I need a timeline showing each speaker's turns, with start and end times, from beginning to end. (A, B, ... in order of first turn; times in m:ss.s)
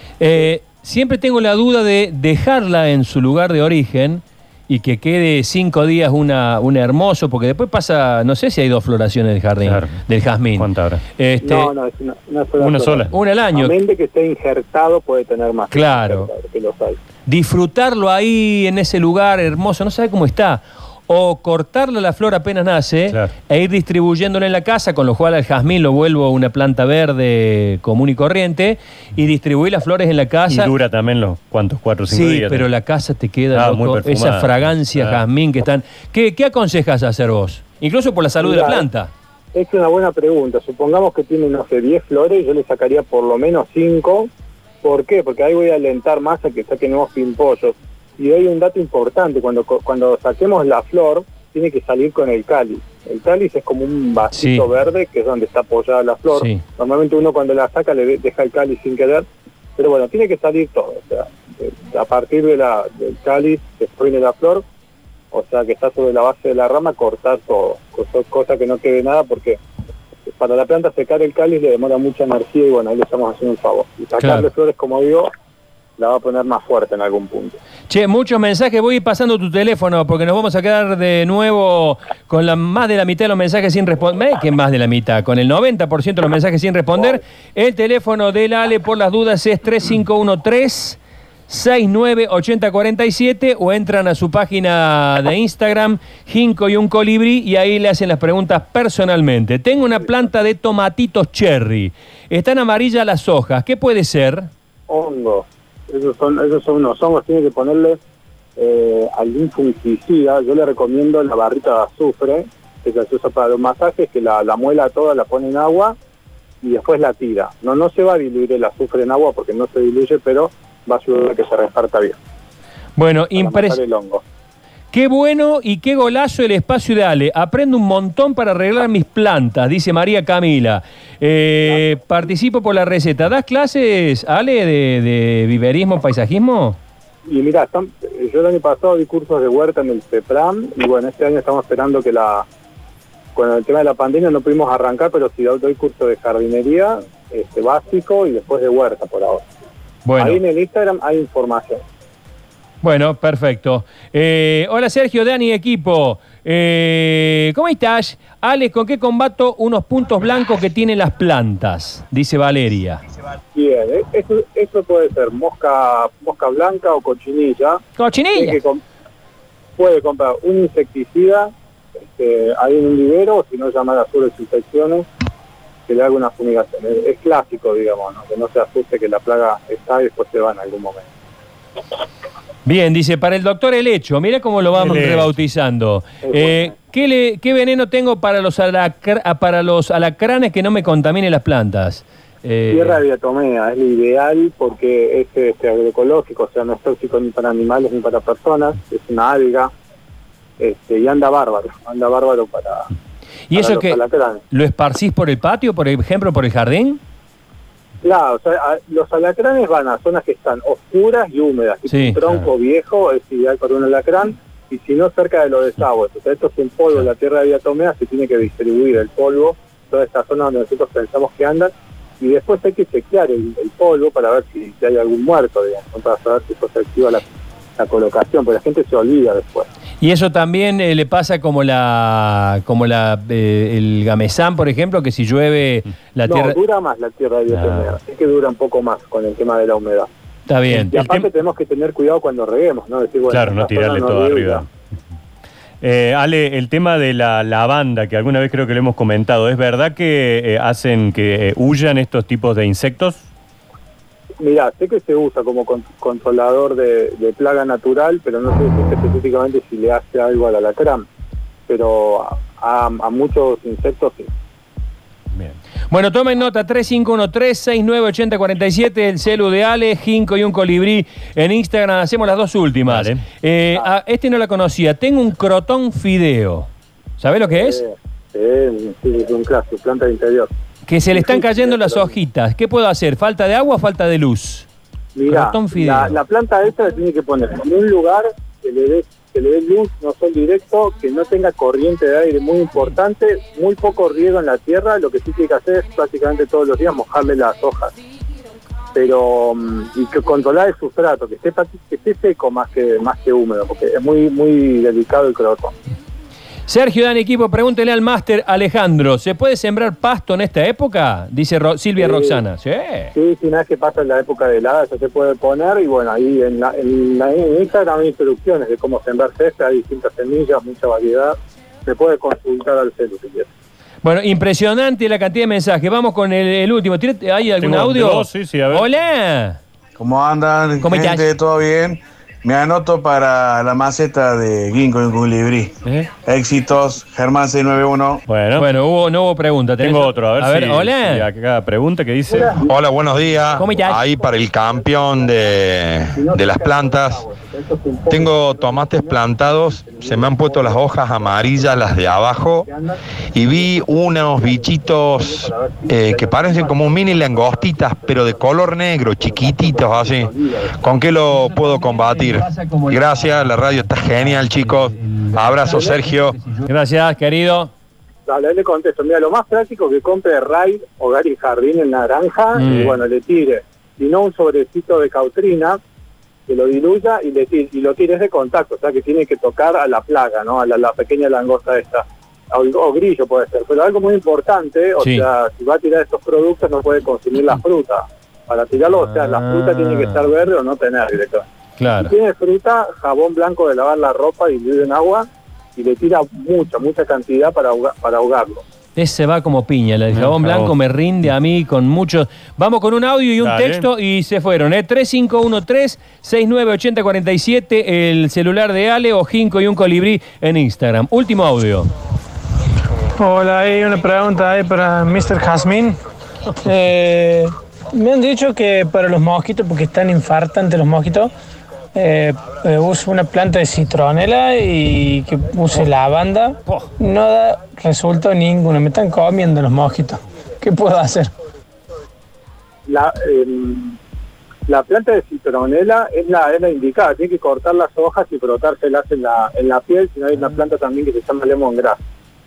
0:00.2-0:11.7 A
0:09.6-0:10.0 B
0:10.6-0:11.0 B
0:11.4-0:17.0 C
0:12.6-0:13.1 B
0:13.1-0:13.7 A
0:15.7-0:16.3 A
0:17.3-0:30.7 A
0:30.5-0:32.7 B
0:32.1-0:39.1 A
0:33.5-0:35.2 B
0:38.4-0:38.9 C
0:39.5-0:44.3 C
0:44.8-0:59.2 C
0:54.3-0:54.6 A
0:56.3-0:56.6 A
0:59.8-1:04.6 C
1:05.3-1:09.6 C
1:10.3-1:15.3 C
1:14.2-1:14.5 A
1:16.0-1:17.6 C
1:17.9-1:44.5 A
1:44.9-1:48.0 C
1:48.6-1:56.0 C
1:56.6-2:02.2 C
2:03.0-2:03.8 A
2:03.4-2:04.2 C
2:04.9-2:16.8 A
2:17.3-2:22.5 C
2:23.4-2:29.5 C
2:30.0-2:30.4 A
2:30.2-2:31.8 C
2:32.8-2:43.0 A
2:43.5-2:47.8 C
2:48.0-2:48.6 A
2:48.4-2:48.8 C
2:49.8-2:51.5 C
2:52.0-2:55.1 C
2:55.9-3:01.1 C
3:02.6-3:13.0 A
3:04.8-3:05.3 B
3:06.2-3:06.7 C
3:12.7-3:19.7 C
3:20.6-3:22.9 C
3:23.5-3:27.0 A
3:23.5-3:24.4 C
3:28.0-3:47.2 C
3:31.9-3:32.2 A
3:47.8-3:49.7 C
3:50.0-3:56.6 A
3:56.3-4:00.1 C
3:57.5-3:57.9 B
4:00.5-4:00.9 A
4:00.7-4:01.3 B
4:00.8-4:04.6 C
4:03.3-4:04.7 B
4:05.8-4:13.2 B
4:14.4-4:21.0 C
4:21.7-4:24.3 C
4:25.3-4:25.6 B
4:25.9-4:37.8 A
4:32.9-4:33.2 B
4:37.5-4:40.5 C
4:40.9-4:44.7 A
4:41.1-4:42.1 C
4:45.2-4:58.0 C
4:45.3-4:46.2 A
4:58.9-5:05.7 C
5:06.7-5:13.1 A
5:12.0-5:12.4 C
5:13.1-5:23.5 C
5:24.0-5:29.6 A
5:27.6-5:28.9 B
5:30.0-5:38.2 D
5:30.8-5:31.3 A
5:35.8-5:36.1 B
5:38.3-5:38.7 B
5:38.6-5:41.3 A
5:39.8-5:42.6 B
5:42.3-5:42.8 C
5:42.6-5:47.2 E
5:43.5-5:45.5 C
5:43.6-5:44.0 A
5:46.1-6:00.7 C
5:48.1-5:52.7 E
5:53.3-6:06.4 E
6:02.1-6:04.8 A
6:05.3-6:07.7 A
6:05.7-6:06.0 C
6:08.3-6:15.8 C
6:12.6-6:12.9 A
6:12.6-6:13.0 B
6:16.5-6:31.5 C
6:25.0-6:25.3 A
6:28.9-6:30.3 A
6:31.8-6:32.1 A
6:32.0-6:38.6 C
6:39.0-6:51.9 A
6:40.1-6:40.7 B
6:43.4-6:43.8 B
6:53.2-6:56.0 F
6:56.6-7:01.3 F
7:02.0-7:11.3 F
7:12.9-7:14.0 C
7:14.7-7:22.0 C